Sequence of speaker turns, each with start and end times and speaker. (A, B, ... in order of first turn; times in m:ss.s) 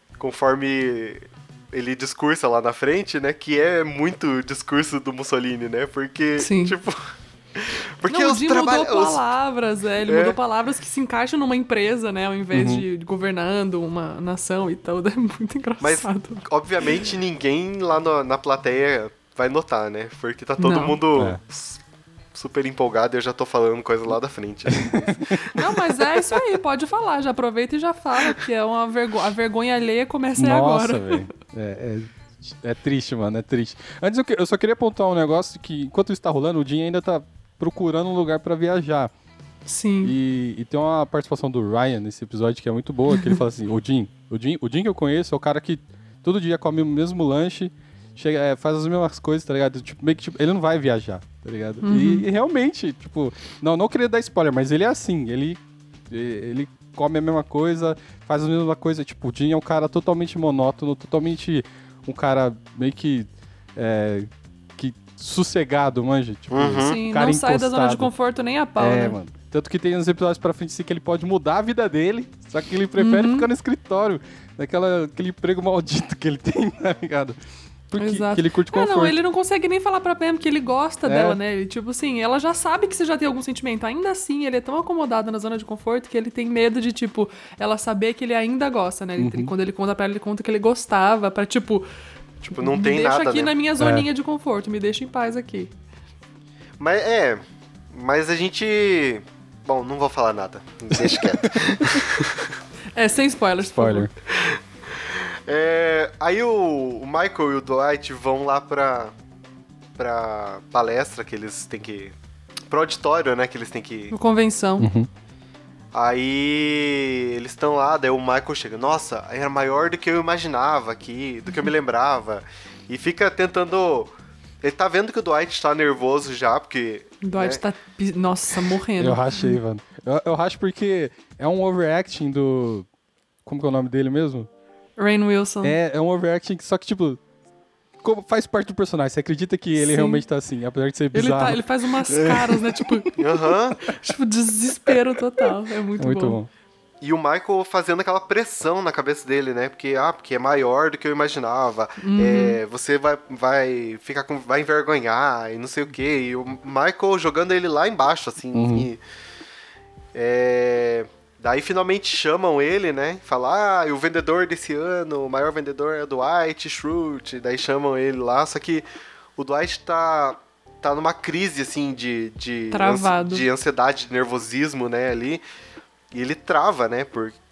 0:00.2-0:09.2 A
0:06.4-0:06.8 B
0:08.1-0:16.4 B
0:10.1-0:10.4 A
0:12.5-0:12.8 C
0:15.8-0:21.8 A
0:20.6-0:21.0 B
0:22.3-0:25.4 A
0:24.7-0:25.3 C
0:25.6-0:31.2 B
0:30.4-0:39.1 C
0:39.7-0:40.1 B
0:40.0-1:08.1 C
0:43.1-0:43.4 B
0:51.8-0:52.3 B
1:06.5-1:07.0 A
1:06.8-1:09.2 B
1:08.8-1:17.4 C
1:13.0-1:13.5 B
1:17.9-1:19.2 C
1:18.0-1:31.9 B
1:21.1-1:21.4 C
1:29.2-1:29.5 C
1:32.5-1:33.5 A
1:32.5-1:35.7 B
1:33.8-1:34.1 C
1:36.8-1:42.5 A
1:41.0-1:41.7 C
1:43.0-1:44.1 B
1:43.6-1:44.1 C
1:45.1-1:49.1 A
1:50.0-1:52.2 A
1:52.7-1:54.2 A
1:54.1-1:54.9 B
1:54.8-1:55.1 C
1:55.9-2:04.1 A
2:04.6-2:07.6 A
2:07.2-2:09.5 B
2:09.0-2:12.9 C
2:13.4-2:14.5 C
2:15.0-2:15.8 B
2:15.6-2:17.2 C
2:18.0-2:23.0 C
2:19.8-2:20.2 B
2:21.1-2:23.2 B
2:23.2-2:23.8 A
2:23.8-2:26.4 B
2:26.0-2:26.5 C
2:27.0-2:39.0 A
2:32.0-2:32.6 B
2:38.5-2:38.9 C
2:40.1-2:48.8 A
2:49.4-2:55.4 A
2:52.7-2:53.5 B
2:56.1-2:57.4 A